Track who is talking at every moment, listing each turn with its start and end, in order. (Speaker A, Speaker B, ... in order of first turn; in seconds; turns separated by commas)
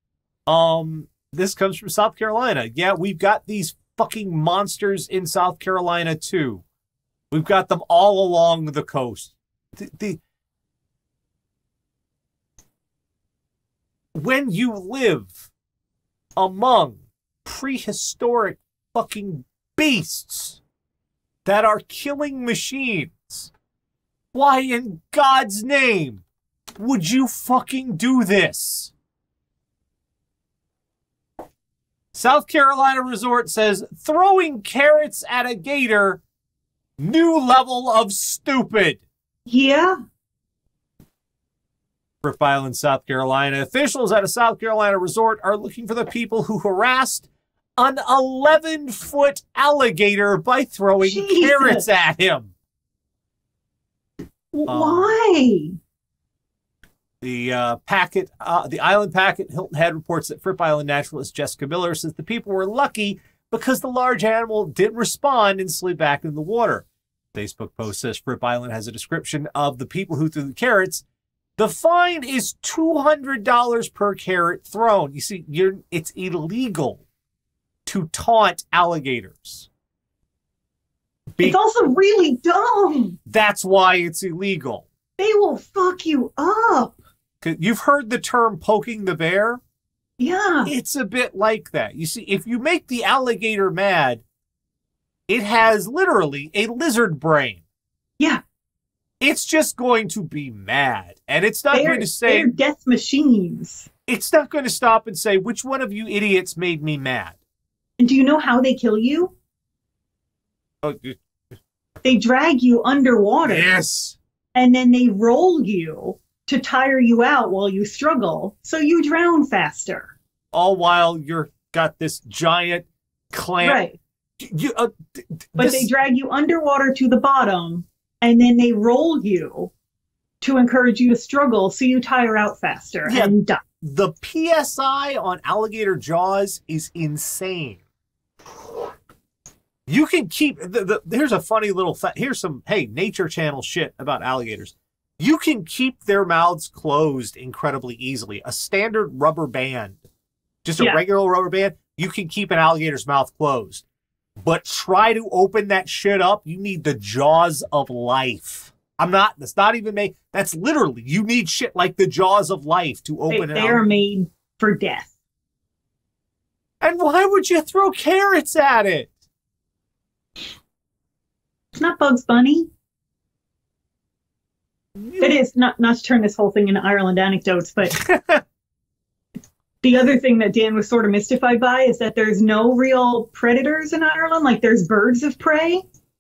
Speaker A: 0.5-6.6, Speaker A: 7.3-10.2, Speaker A: 14.1-15.4, Speaker A: 16.4-20.6, Speaker A: 21.4-23.5, Speaker A: 24.3-26.2, Speaker A: 26.8-28.9, Speaker A: 32.1-36.2, Speaker A: 37.0-39.0, Speaker B: 39.5-40.0, Speaker A: 42.2-52.5, Speaker B: 51.0-51.9, Speaker B: 54.5-55.8, Speaker A: 54.7-55.1, Speaker A: 57.2-71.0, Speaker A: 71.6-77.0, Speaker A: 77.9-79.7, Speaker B: 81.4-83.2, Speaker A: 83.3-84.9, Speaker B: 85.2-87.0, Speaker A: 87.4-89.6, Speaker B: 90.2-90.7, Speaker A: 90.7-94.2, Speaker A: 95.3-97.6, Speaker A: 99.2-102.5, Speaker B: 101.7-103.9, Speaker A: 104.1-107.4, Speaker B: 108.0-109.3, Speaker A: 110.8-111.2, Speaker B: 112.0-113.7, Speaker A: 113.5-114.2, Speaker B: 114.5-120.1, Speaker A: 120.5-123.8, Speaker B: 123.6-124.0, Speaker A: 124.4-125.9, Speaker B: 125.6-129.7, Speaker B: 130.4-133.6, Speaker A: 133.1-137.8, Speaker A: 139.9-150.0, Speaker A: 150.7-153.8, Speaker A: 154.4-163.8, Speaker B: 163.3-165.1, Speaker A: 166.8-169.1, Speaker B: 171.7-172.7, Speaker A: 175.0-175.4, Speaker B: 175.2-178.0, Speaker A: 178.0-178.4, Speaker B: 179.8-185.8